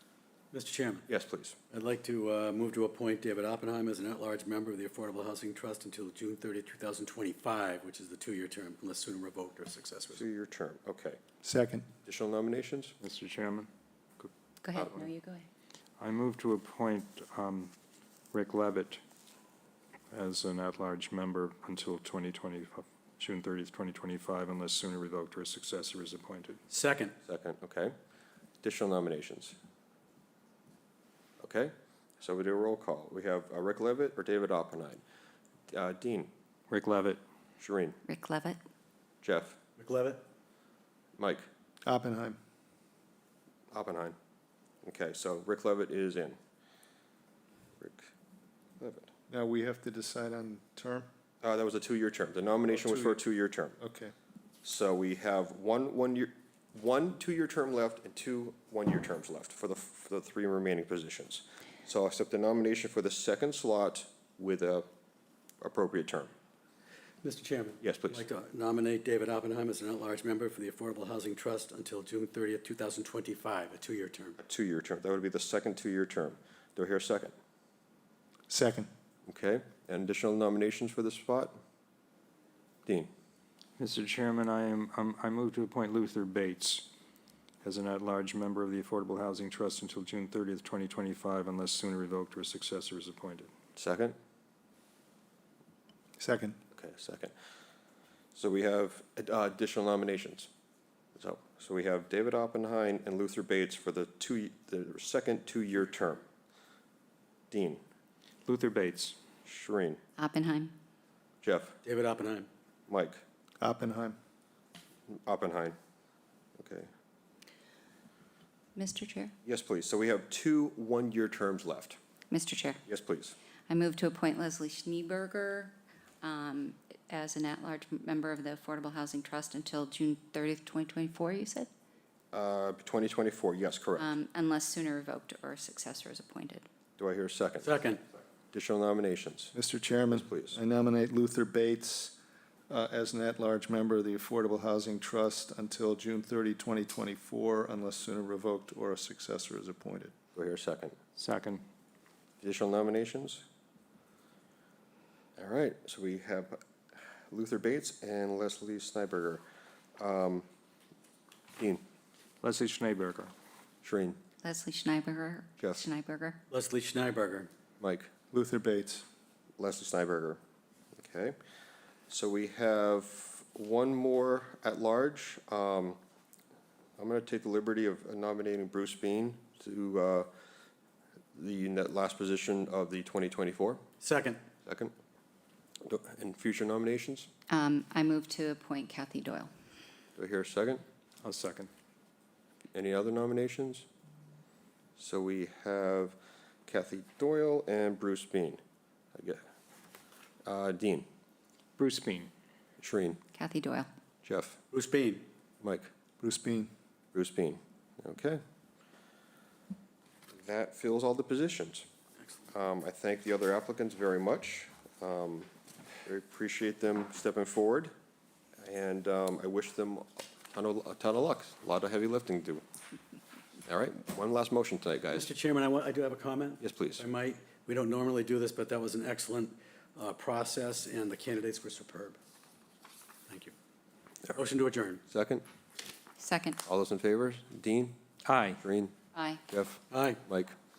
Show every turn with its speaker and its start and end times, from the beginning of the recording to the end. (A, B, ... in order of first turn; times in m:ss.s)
0:00.5-0:01.1 A
0:01.1-0:01.6 B
0:01.7-0:10.2 A
0:10.1-0:11.2 B
0:11.4-0:11.9 C
0:12.0-0:12.9 B
0:13.0-0:14.3 D
0:14.6-0:15.5 E
0:16.0-0:17.7 D
0:18.3-0:19.0 D
0:20.1-0:26.6 D
0:26.7-0:27.1 A
0:27.3-0:27.9 B
0:28.6-0:29.6 B
0:31.4-0:35.0 B
0:35.7-0:36.3 B
0:36.7-0:37.2 D
0:37.6-0:38.0 B
0:38.1-0:38.6 E
0:39.2-0:39.6 B
0:39.8-0:40.2 A
0:41.2-0:41.4 B
0:41.9-0:42.4 C
0:43.7-0:44.2 B
0:44.8-0:46.4 B
0:47.8-0:48.1 B
0:48.8-0:49.1 B
0:49.3-0:51.1 C
0:51.4-0:53.8 B
0:52.8-0:53.2 C
0:53.8-0:54.1 C
0:54.6-1:04.9 B
1:05.6-1:06.3 B
1:07.2-1:14.4 A
1:07.8-1:08.2 B
1:14.4-1:17.3 B
1:18.5-1:18.9 C
1:19.3-1:21.6 B
1:22.9-1:23.1 B
1:23.8-1:26.9 D
1:27.6-1:33.5 D
1:33.8-1:34.2 B
1:36.2-1:36.6 C
1:36.8-1:37.3 B
1:38.3-1:40.5 B
1:41.2-1:46.2 B
1:47.5-1:47.8 B
1:48.5-1:49.2 D
1:49.4-1:50.0 B
1:50.2-1:50.7 E
1:51.4-1:51.8 B
1:51.8-1:52.5 A
1:52.9-1:53.2 B
1:53.6-1:54.2 C
1:55.1-1:55.8 B
1:56.6-1:56.9 B
1:58.8-1:59.3 E
1:59.4-2:02.0 B
2:02.3-2:02.8 E
2:02.9-2:03.4 B
2:03.7-2:11.7 E
2:12.3-2:14.2 B
2:14.0-2:16.7 E
2:17.0-2:17.7 B
2:17.6-2:18.0 A
2:18.5-2:19.5 B
2:19.5-2:22.2 C
2:20.1-2:20.6 B
2:22.7-2:30.1 C
2:30.4-2:31.0 B
2:31.2-2:31.6 D
2:32.4-2:33.4 B
2:35.4-2:36.6 B
2:37.3-2:39.4 B
2:40.0-2:40.5 B
2:42.4-2:43.3 D
2:43.8-2:44.2 B
2:44.4-2:46.4 E
2:45.6-2:45.8 B
2:46.5-2:47.5 A
2:47.8-2:48.1 B
2:48.3-2:49.0 C
2:49.6-2:50.4 B
2:51.0-2:51.4 B
2:52.1-2:56.0 B
2:57.0-3:00.3 B
3:01.4-3:03.8 B
3:04.0-3:04.4 A
3:04.6-3:04.9 B
3:05.8-3:07.3 B
3:07.5-3:09.5 E
3:10.2-3:10.8 B
3:11.2-3:11.7 D
3:12.7-3:13.9 B
3:15.0-3:18.6 B
3:19.1-3:19.4 B
3:20.4-3:21.1 B
3:21.8-3:22.3 D
3:22.8-3:23.2 B
3:23.4-3:23.9 E
3:24.2-3:24.6 B
3:24.7-3:25.2 A
3:25.6-3:25.9 B
3:26.2-3:26.7 C
3:27.1-3:28.4 B
3:30.3-3:31.9 B
3:32.5-3:35.5 B
3:36.0-3:37.9 B
3:38.6-3:42.6 B
3:43.7-3:45.3 B
3:45.1-3:52.2 A
3:46.6-3:47.0 B
3:54.3-3:55.0 A
3:55.1-3:55.4 B
3:56.2-3:56.6 E
3:56.6-3:58.0 B
3:58.2-3:58.6 D
3:58.6-3:59.0 B
3:59.1-3:59.4 E
3:59.5-4:00.6 B
3:59.9-4:00.2 A